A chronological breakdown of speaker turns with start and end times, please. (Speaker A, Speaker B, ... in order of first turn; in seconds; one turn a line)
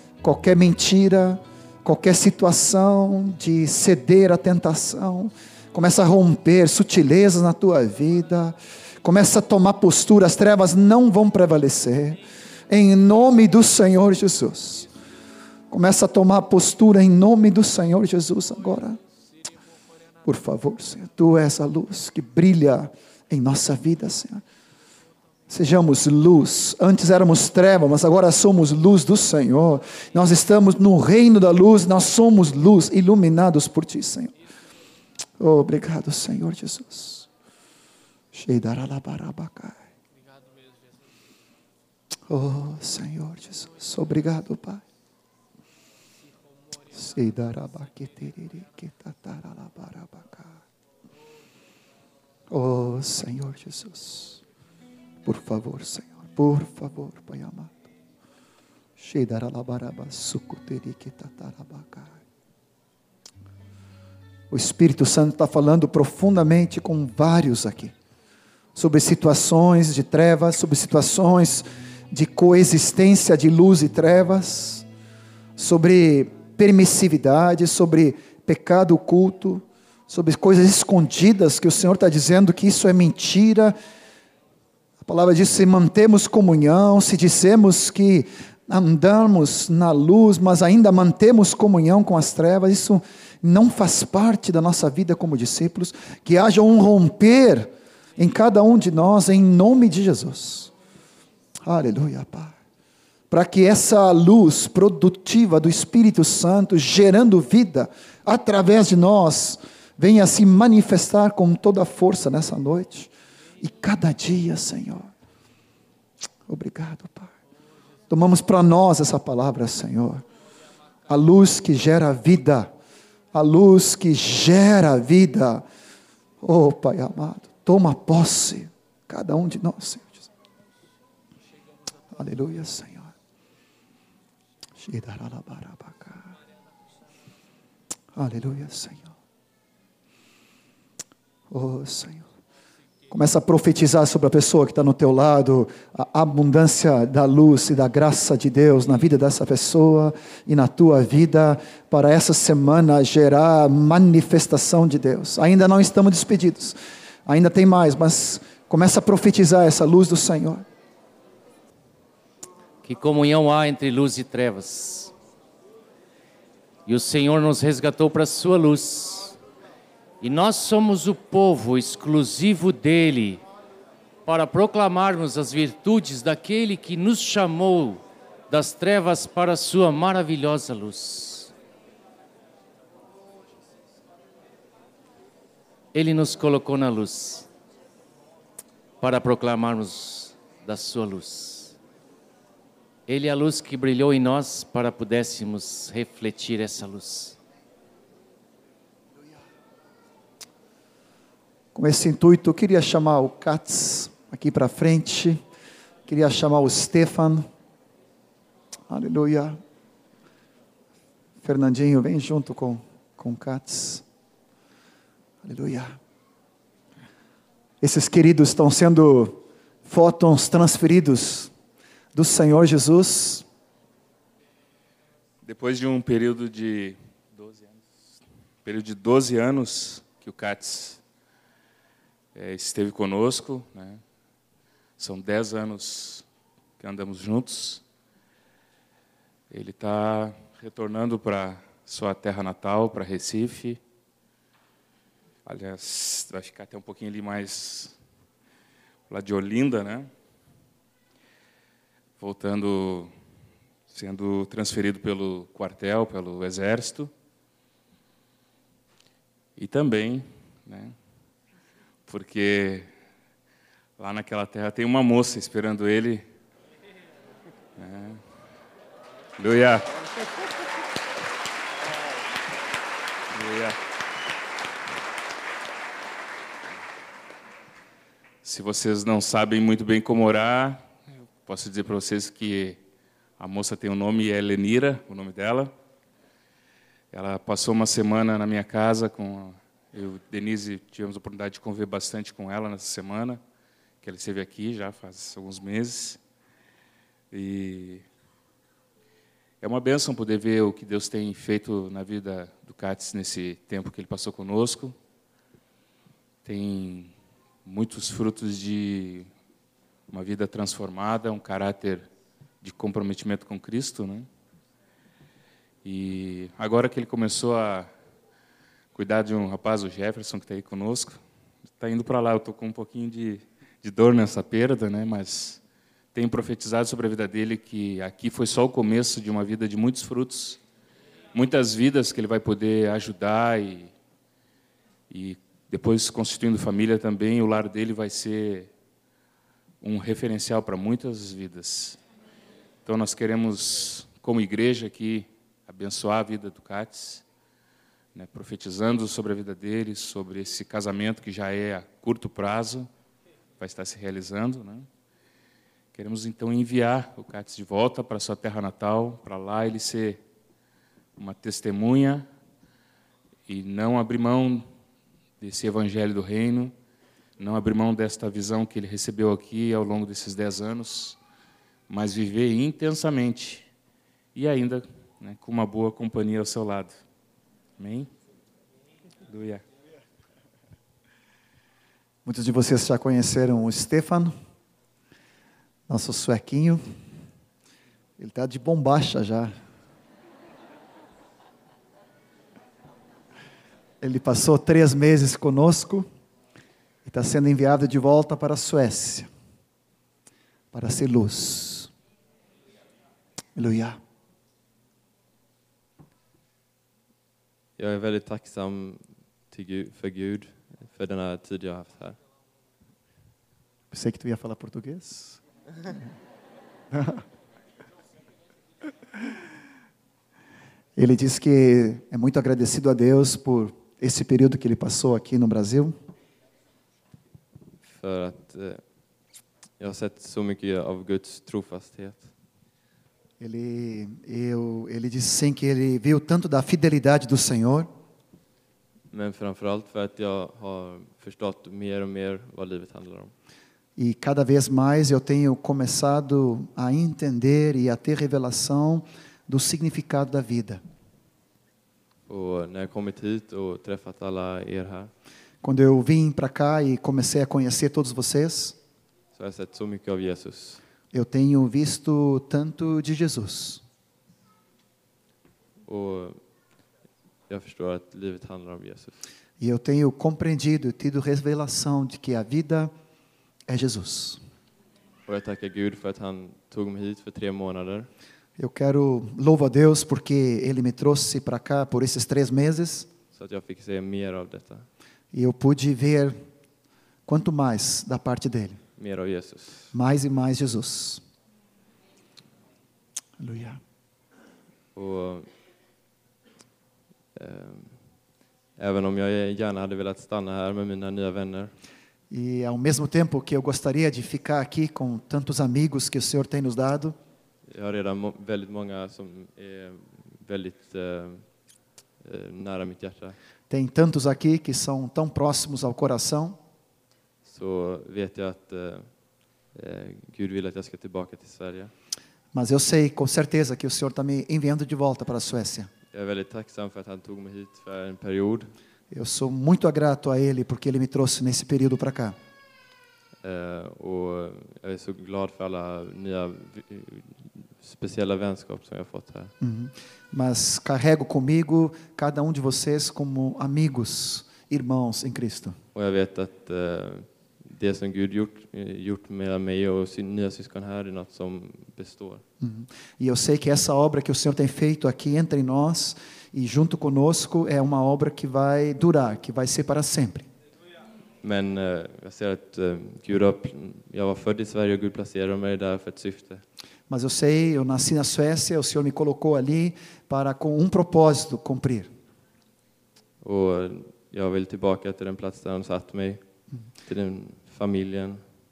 Speaker A: 0.2-14.9
Speaker A: 15.7-19.0
Speaker A: 20.2-24.4
Speaker A: 25.5-34.3
Speaker A: 35.4-37.3
Speaker A: 38.3-39.8
Speaker A: 42.3-44.8
Speaker A: 46.9-50.6
Speaker A: 52.5-54.4
Speaker A: 55.2-57.9
Speaker A: 59.0-62.2
Speaker A: 64.5-67.9
Speaker A: 68.8-74.9
Speaker A: 75.6-83.8
Speaker A: 85.0-100.7
Speaker A: 101.7-102.5
Speaker A: 103.3-113.1
Speaker A: 113.6-115.1
Speaker A: 116.5-117.3
Speaker A: 118.1-120.2
Speaker A: 121.1-122.7
Speaker A: 123.3-125.7
Speaker A: 126.4-130.3
Speaker A: 132.1-133.1
Speaker A: 134.8-136.3
Speaker A: 138.1-139.1
Speaker A: 141.5-142.3
Speaker A: 143.1-160.7
Speaker B: 162.8-165.1
Speaker B: 166.9-169.4
Speaker B: 170.2-173.4
Speaker B: 174.3-181.5
Speaker B: 185.9-187.5
Speaker B: 189.0-191.8
Speaker B: 193.1-197.4
Speaker A: 201.8-205.4
Speaker A: 206.1-207.5
Speaker A: 208.9-209.6
Speaker A: 211.4-214.0
Speaker A: 215.4-216.0
Speaker A: 217.8-221.5
Speaker A: 222.1-223.4
Speaker C: 225.4-227.8
Speaker C: 228.6-231.0
Speaker C: 232.3-234.0
Speaker C: 235.0-236.2
Speaker C: 236.8-237.8
Speaker C: 239.5-243.8
Speaker C: 245.4-247.9
Speaker C: 249.1-250.1
Speaker C: 252.2-253.1
Speaker C: 253.9-257.1
Speaker C: 259.6-260.9
Speaker C: 262.1-262.9
Speaker C: 264.0-266.2
Speaker C: 267.8-268.2
Speaker C: 269.4-269.9
Speaker C: 273.3-273.8
Speaker C: 278.4-280.9
Speaker C: 281.4-282.8
Speaker C: 283.4-285.7
Speaker C: 287.1-293.4
Speaker C: 294.0-296.2
Speaker C: 297.3-298.0
Speaker C: 299.6-304.9
Speaker C: 306.4-307.1
Speaker C: 307.6-309.3
Speaker C: 310.1-312.1
Speaker C: 312.6-314.3
Speaker C: 315.8-317.9
Speaker C: 318.9-321.2
Speaker C: 321.8-325.6
Speaker C: 326.1-330.6
Speaker C: 331.3-333.9
Speaker C: 335.1-338.7
Speaker C: 339.8-342.0
Speaker C: 342.9-347.2
Speaker C: 348.1-352.9
Speaker C: 353.6-354.9
Speaker C: 355.9-360.2
Speaker C: 361.2-362.3
Speaker C: 363.5-364.6
Speaker C: 365.4-366.7
Speaker C: 367.4-371.2
Speaker C: 371.9-373.7
Speaker C: 374.4-377.0
Speaker C: 377.8-378.1
Speaker C: 379.3-379.6
Speaker A: 382.2-384.3
Speaker A: 385.9-386.8
Speaker A: 388.2-389.5
Speaker A: 394.0-396.1
Speaker A: 397.1-399.3
Speaker A: 400.7-401.9
Speaker A: 403.6-404.0
Speaker D: 407.8-412.2
Speaker A: 413.9-415.4
Speaker A: 421.0-425.9
Speaker D: 427.9-432.3
Speaker A: 433.4-437.9
Speaker D: 439.1-443.3
Speaker A: 444.0-450.8
Speaker D: 452.3-455.1
Speaker A: 455.6-458.8
Speaker D: 459.3-460.8
Speaker A: 461.1-463.8
Speaker D: 465.9-466.6
Speaker D: 467.5-469.2
Speaker A: 469.6-472.9
Speaker A: 473.7-474.4
Speaker D: 475.3-478.1
Speaker A: 478.6-483.1
Speaker D: 483.3-484.9
Speaker A: 485.3-486.4
Speaker A: 487.3-488.8
Speaker D: 489.0-489.9
Speaker A: 489.9-491.2
Speaker A: 493.4-493.8
Speaker D: 494.9-495.5
Speaker D: 497.4-501.7
Speaker A: 502.3-507.1
Speaker D: 507.7-513.4
Speaker A: 513.7-516.6
Speaker D: 517.4-521.9
Speaker A: 522.5-525.9
Speaker D: 526.1-528.7
Speaker A: 529.1-532.4
Speaker D: 533.4-539.5
Speaker A: 539.6-545.8
Speaker D: 545.9-552.4
Speaker A: 552.6-560.5
Speaker D: 561.4-566.6
Speaker A: 567.1-572.1
Speaker D: 573.4-578.5